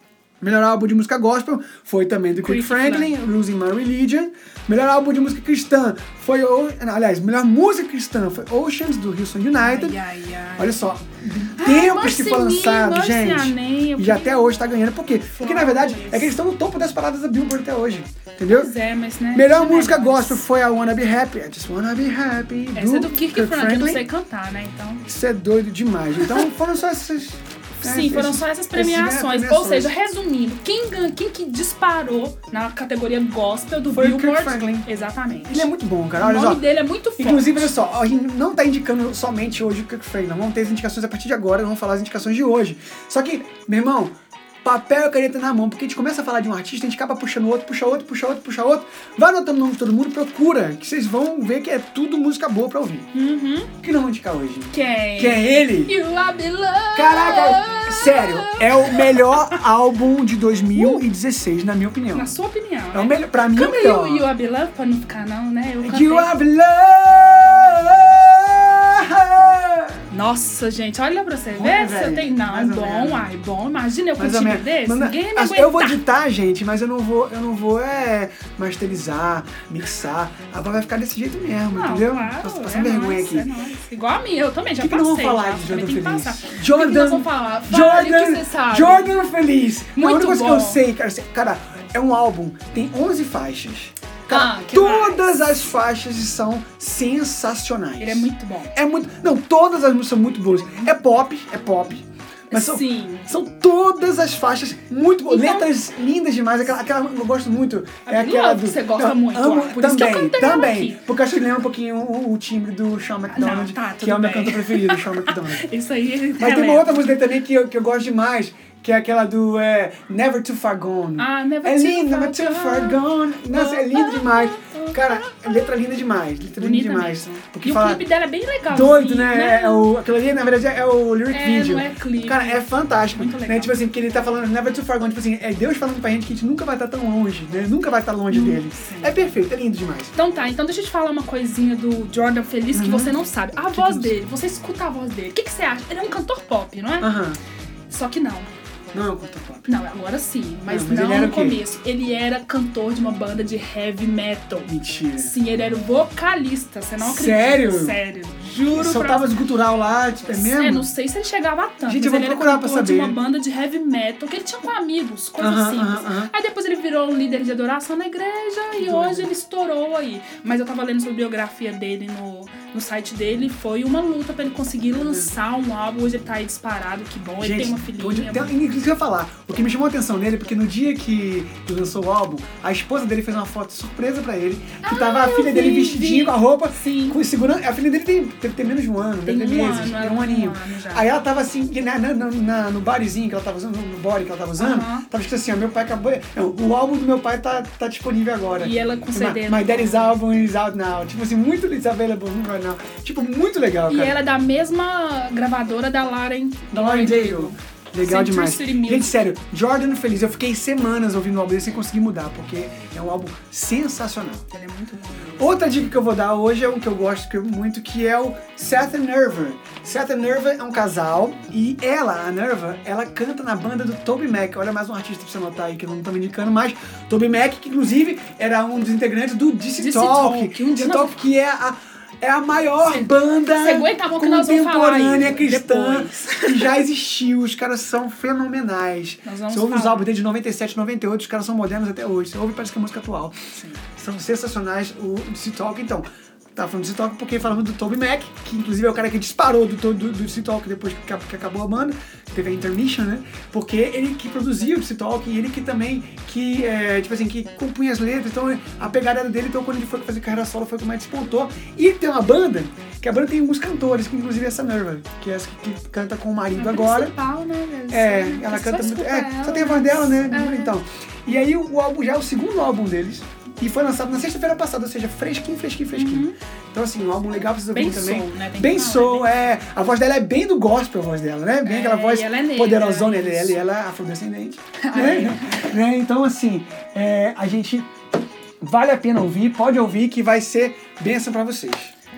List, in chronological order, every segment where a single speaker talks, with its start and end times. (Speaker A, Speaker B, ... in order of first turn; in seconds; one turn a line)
Speaker A: 0.4-10.0
Speaker B: 2.4-3.1
Speaker B: 9.6-10.8
Speaker A: 10.6-18.7
Speaker B: 11.6-14.6
Speaker B: 15.3-16.4
Speaker B: 18.5-20.4
Speaker A: 19.3-24.0
Speaker B: 22.8-25.1
Speaker A: 25.1-29.9
Speaker B: 27.8-37.8
Speaker A: 33.9-34.9
Speaker A: 35.5-36.7
Speaker A: 37.2-44.1
Speaker A: 44.6-53.1
Speaker B: 53.1-53.7
Speaker A: 53.8-56.0
Speaker B: 54.7-59.6
Speaker A: 57.0-62.3
Speaker B: 60.7-61.0
Speaker B: 62.1-66.3
Speaker A: 62.9-64.3
Speaker A: 65.8-70.0
Speaker B: 70.1-76.0
Speaker A: 71.5-73.3
Speaker A: 74.2-83.5
Speaker B: 81.7-89.2
Speaker A: 84.8-115.7
Speaker B: 90.0-90.8
Speaker B: 94.3-95.3
Speaker B: 98.0-98.7
Speaker B: 102.5-103.3
Speaker B: 105.3-105.7
Speaker B: 108.1-111.0
Speaker B: 113.3-117.1
Speaker A: 116.4-128.0
Speaker B: 121.2-125.7
Speaker B: 126.6-129.9
Speaker A: 128.7-140.1
Speaker B: 131.3-133.7
Speaker B: 138.3-139.3
Speaker B: 140.2-147.1
Speaker A: 142.7-143.2
Speaker A: 143.7-144.2
Speaker A: 147.0-147.4
Speaker B: 147.9-148.5
Speaker A: 148.9-149.7
Speaker B: 149.7-159.4
Speaker A: 150.7-151.7
Speaker A: 154.7-155.3
Speaker A: 157.0-158.0
Speaker A: 158.7-160.9
Speaker B: 160.3-178.6
Speaker A: 161.9-163.2
Speaker A: 165.4-166.3
Speaker A: 168.7-169.3
Speaker A: 174.9-175.3
Speaker A: 177.4-204.2
Speaker B: 184.8-187.2
Speaker B: 189.3-191.1
Speaker B: 194.6-195.1
Speaker B: 198.6-200.2
Speaker B: 203.9-209.4
Speaker A: 206.7-214.5
Speaker B: 214.5-215.4
Speaker A: 215.4-243.4
Speaker B: 229.8-231.2
Speaker B: 232.9-236.7
Speaker B: 239.2-240.1
Speaker A: 244.0-267.1
Speaker B: 266.6-270.7
Speaker A: 267.9-287.9
Speaker B: 275.9-276.3
Speaker B: 277.7-279.5
Speaker B: 281.6-283.6
Speaker B: 284.8-285.8
Speaker A: 288.6-291.9